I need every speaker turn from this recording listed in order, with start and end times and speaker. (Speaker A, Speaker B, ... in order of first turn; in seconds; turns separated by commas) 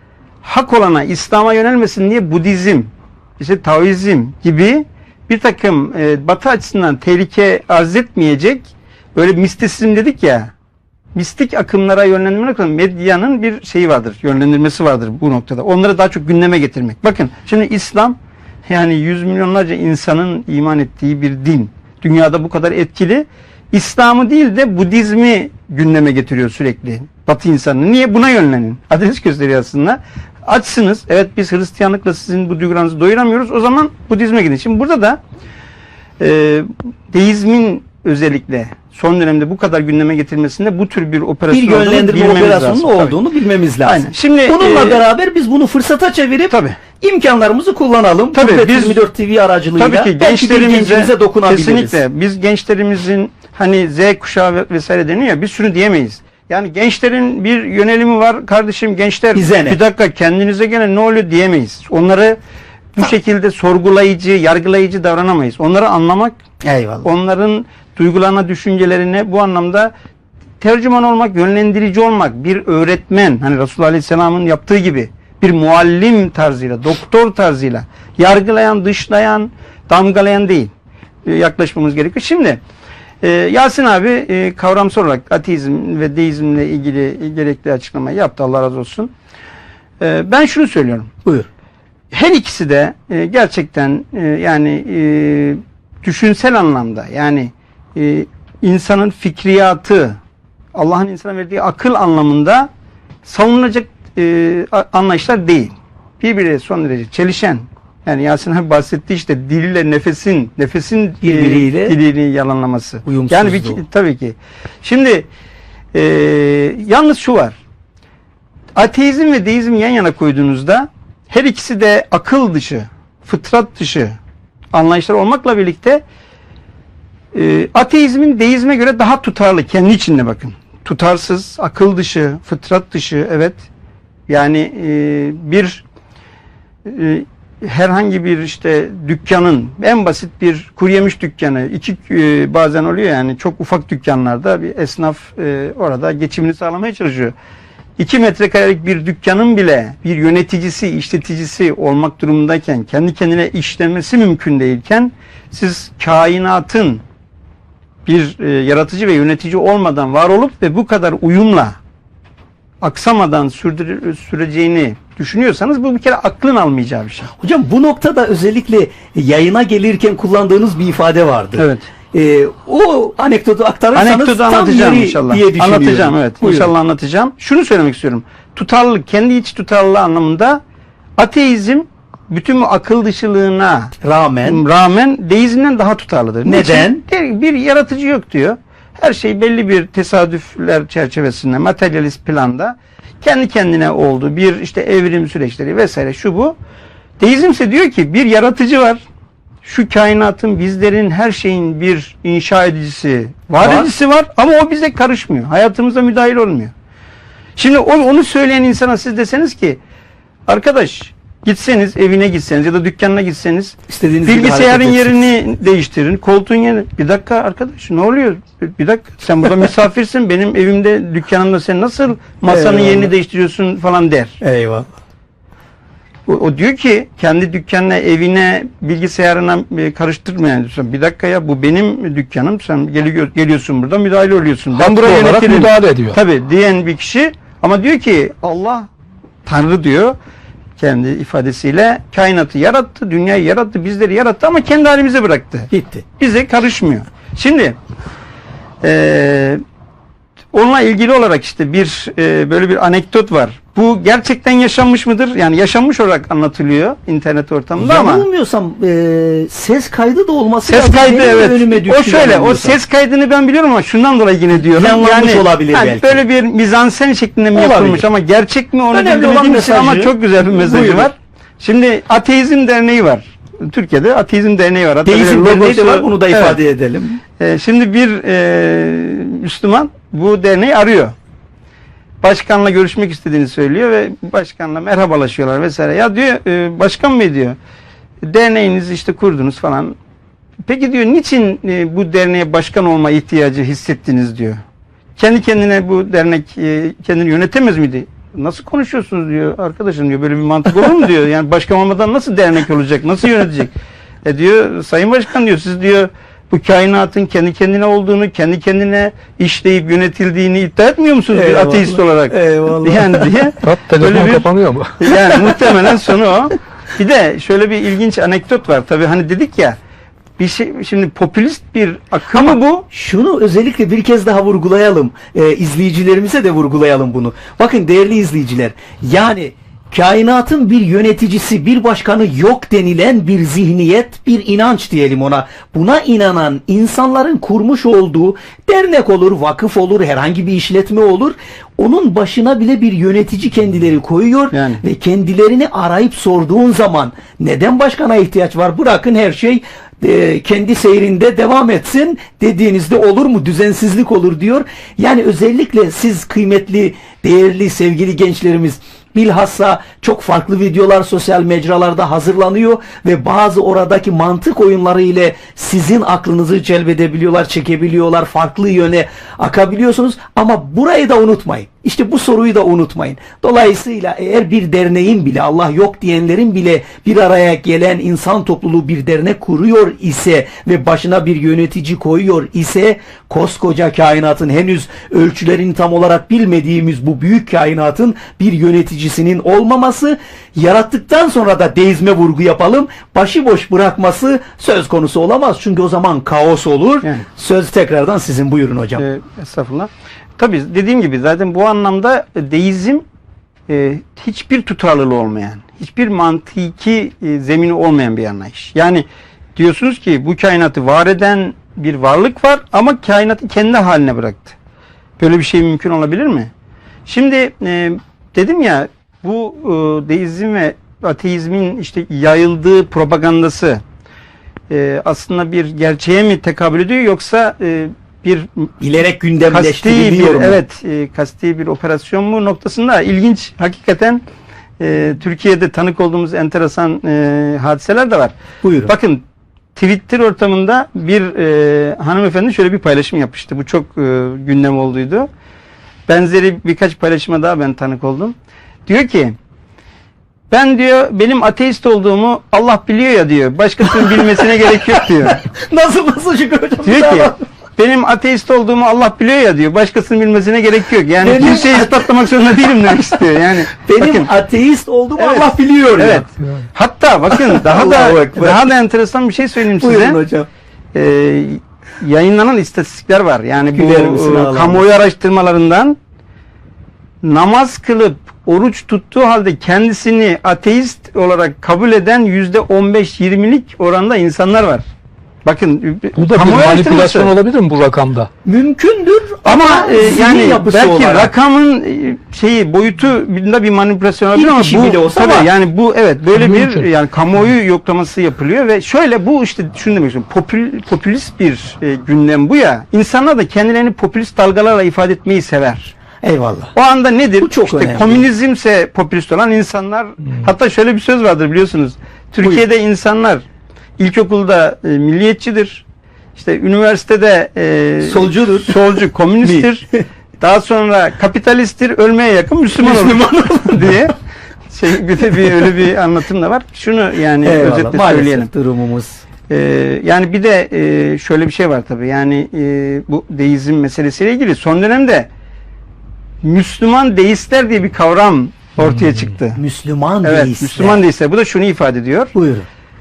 Speaker A: 0.4-10.5, Speaker A: 11.1-35.2, Speaker A: 36.2-43.2, Speaker B: 41.5-52.0, Speaker A: 43.8-45.0, Speaker A: 46.5-46.8, Speaker A: 48.3-49.0, Speaker A: 49.8-62.4, Speaker B: 59.3-59.8, Speaker A: 63.0-66.4, Speaker B: 66.6-67.1, Speaker A: 67.0-69.9, Speaker A: 70.6-80.7, Speaker A: 81.2-82.6, Speaker A: 83.2-89.1, Speaker A: 90.0-91.1, Speaker A: 92.1-100.2, Speaker A: 100.7-102.7, Speaker A: 103.2-115.3, Speaker B: 111.2-111.9, Speaker B: 113.0-113.8, Speaker A: 115.9-117.6, Speaker A: 118.8-124.1, Speaker A: 124.7-126.0, Speaker A: 127.3-133.6, Speaker A: 134.3-135.8, Speaker A: 136.8-147.3, Speaker A: 148.0-157.0, Speaker A: 158.1-161.8, Speaker A: 162.8-167.3, Speaker B: 167.4-176.7, Speaker A: 171.6-171.9, Speaker A: 173.9-180.6, Speaker A: 181.2-196.6, Speaker B: 184.0-184.6, Speaker B: 186.4-187.0, Speaker A: 197.2-199.0, Speaker A: 199.6-206.7, Speaker A: 207.6-209.8, Speaker A: 210.5-224.3, Speaker B: 213.9-215.2, Speaker B: 222.4-223.1, Speaker B: 224.4-224.9, Speaker A: 226.3-238.9, Speaker C: 234.7-236.2, Speaker A: 239.4-240.2, Speaker A: 240.8-247.8, Speaker B: 245.7-246.0, Speaker A: 248.8-249.6, Speaker A: 250.5-258.2, Speaker B: 257.8-262.8, Speaker A: 260.6-276.6, Speaker B: 264.6-266.2, Speaker B: 267.5-268.1, Speaker B: 268.9-271.1, Speaker B: 275.0-277.2, Speaker A: 277.4-281.1, Speaker A: 282.2-287.6, Speaker A: 288.2-289.9, Speaker A: 290.6-294.6, Speaker A: 295.2-319.8, Speaker B: 311.3-313.3, Speaker C: 313.6-315.1, Speaker B: 315.1-316.1, Speaker A: 320.4-322.9, Speaker B: 322.3-399.0, Speaker A: 344.5-344.8, Speaker A: 399.0-403.0, Speaker A: 403.7-414.5, Speaker A: 415.2-416.5, Speaker A: 417.1-423.8, Speaker A: 424.7-428.7, Speaker B: 428.8-430.6, Speaker A: 429.5-434.2, Speaker A: 434.8-438.3, Speaker B: 438.6-438.9, Speaker A: 438.9-439.2, Speaker A: 439.8-445.3, Speaker A: 446.1-448.3, Speaker A: 448.9-449.4, Speaker A: 450.5-455.4, Speaker B: 453.8-457.4, Speaker A: 456.8-464.3, Speaker B: 461.2-466.3, Speaker A: 465.2-470.2, Speaker B: 467.3-468.6, Speaker B: 469.8-470.5, Speaker A: 470.9-476.0, Speaker B: 473.7-474.8, Speaker A: 477.2-484.8, Speaker A: 485.4-487.3, Speaker C: 486.1-488.3, Speaker B: 488.4-491.3, Speaker A: 489.4-505.9, Speaker B: 494.3-495.5, Speaker C: 496.3-496.9, Speaker B: 506.2-506.7, Speaker A: 506.7-513.4, Speaker B: 507.4-508.3, Speaker A: 514.0-515.8, Speaker A: 516.4-524.1, Speaker B: 518.0-518.8, Speaker B: 519.4-520.0, Speaker B: 522.8-524.0, Speaker A: 524.7-528.5, Speaker B: 527.4-529.2, Speaker A: 529.5-535.3, Speaker A: 536.4-539.6, Speaker B: 539.6-541.0, Speaker A: 540.2-542.3, Speaker B: 542.3-542.7